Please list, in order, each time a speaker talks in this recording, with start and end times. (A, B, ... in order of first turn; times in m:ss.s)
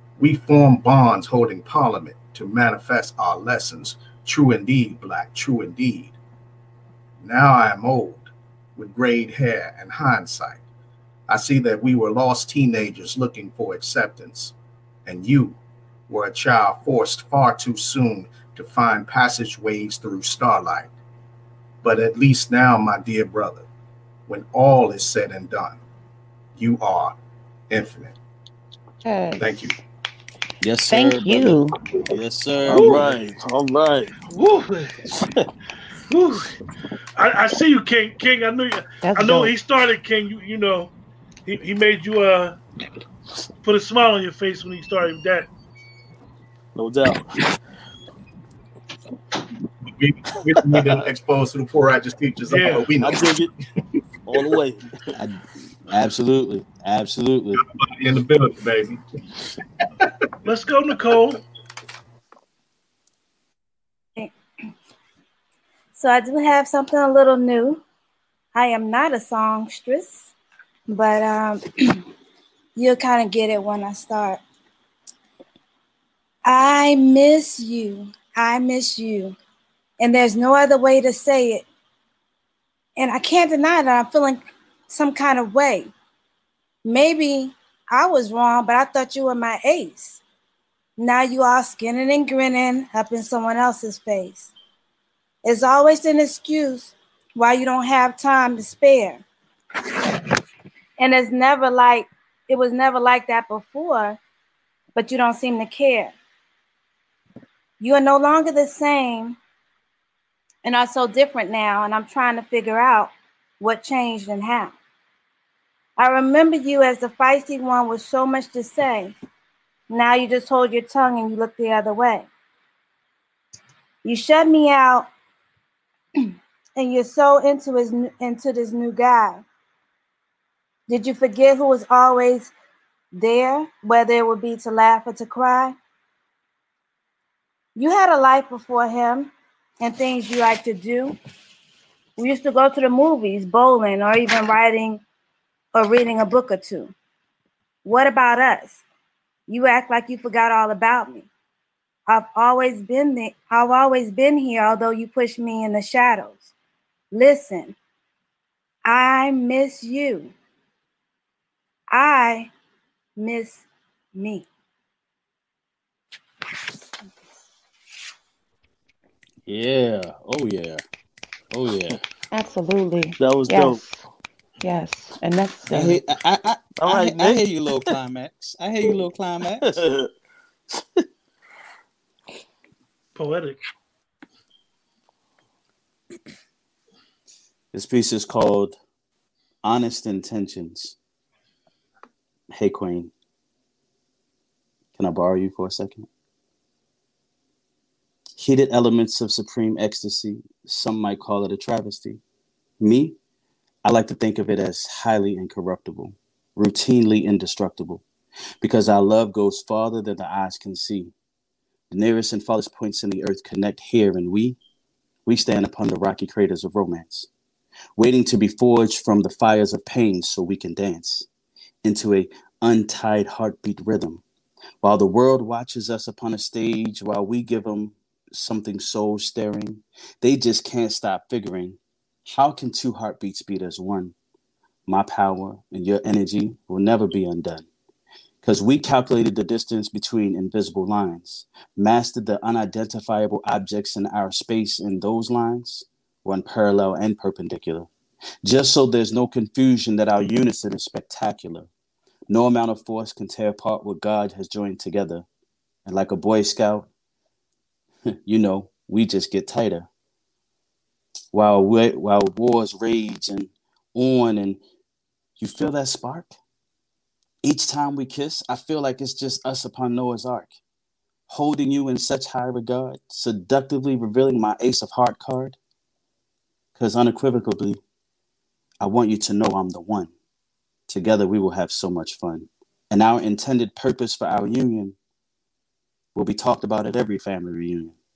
0:00.2-0:06.2 A
0:07.2-0:10.6 A
0:11.3-0:14.5 A
0:15.0-0:20.9 A
0:21.8-0:23.7 A
0:24.3-0:25.8 A
0:26.6-0:27.1 A
0:27.7-0:28.2 A
0:29.0-0:29.6 B
0:29.4-0:29.8 A
0:30.6-0:33.1 C
0:30.9-0:31.8 B
0:32.7-0:33.1 D
0:32.7-0:34.1 E
0:34.2-0:35.0 D
0:35.1-0:35.5 E
0:36.1-0:36.5 D
0:37.2-0:40.9 D
0:39.0-0:39.5 B
0:41.4-0:42.6 D
0:43.6-0:45.5 D
0:46.8-0:47.4 E
0:49.8-0:53.3 A
0:52.4-0:52.9 D
0:53.0-0:53.5 E
0:54.3-0:54.9 E
0:55.2-0:57.6 C
0:57.6-0:59.0 A
1:00.4-1:01.4 D
1:05.9-1:07.8 F
1:08.5-1:10.3 F
1:10.9-1:12.0 F
1:12.8-1:14.4 F
1:16.4-1:19.4 F
1:20.0-1:21.6 F
1:23.0-1:25.9 F
1:26.8-1:30.2 F
1:31.0-1:34.5 F
1:35.4-1:39.2 F
1:41.0-1:44.2 F
1:44.9-1:46.1 F
1:47.8-1:49.4 F
1:50.6-1:54.8 F
1:56.0-1:59.1 F
1:59.9-2:02.3 F
2:04.0-2:05.1 F
2:06.8-2:09.4 F
2:10.9-2:12.5 F
2:13.1-2:15.8 F
2:17.8-2:21.2 F
2:22.2-2:25.0 F
2:25.7-2:26.9 F
2:27.8-2:28.8 F
2:29.5-2:31.3 F
2:32.1-2:36.5 F
2:37.1-2:37.7 F
2:38.8-2:40.3 F
2:41.9-2:42.5 F
2:43.2-2:44.5 F
2:49.4-2:50.8 C
2:51.5-2:52.0 C
2:52.3-2:54.0 B
2:53.2-2:53.8 E
2:54.6-2:56.0 B
2:55.7-2:59.8 C
2:56.8-2:57.9 E
2:59.6-3:00.1 E
3:00.7-3:01.0 E
3:03.1-3:03.6 D
3:07.7-3:08.8 C
3:09.6-3:11.0 C
3:12.5-3:13.1 C
3:15.0-3:16.1 C
3:18.4-3:22.2 C
3:22.8-3:23.2 C
3:23.8-3:28.0 C
3:28.6-3:31.1 C
3:31.9-3:34.6 C
3:35.2-3:37.3 C
3:38.0-3:41.3 C
3:41.8-3:44.2 C
3:44.8-3:54.1 C
3:54.9-3:57.7 C
3:58.4-4:07.9 C
4:08.4-4:11.7 C
4:12.3-4:15.2 C
4:15.8-4:16.9 C
4:18.2-4:19.9 C
4:21.3-4:24.6 C
4:25.4-4:26.3 C
4:27.4-4:30.5 C
4:31.3-4:35.6 C
4:36.8-4:37.8 C
4:38.8-4:40.1 C
4:40.9-4:45.0 C
4:46.1-4:48.0 C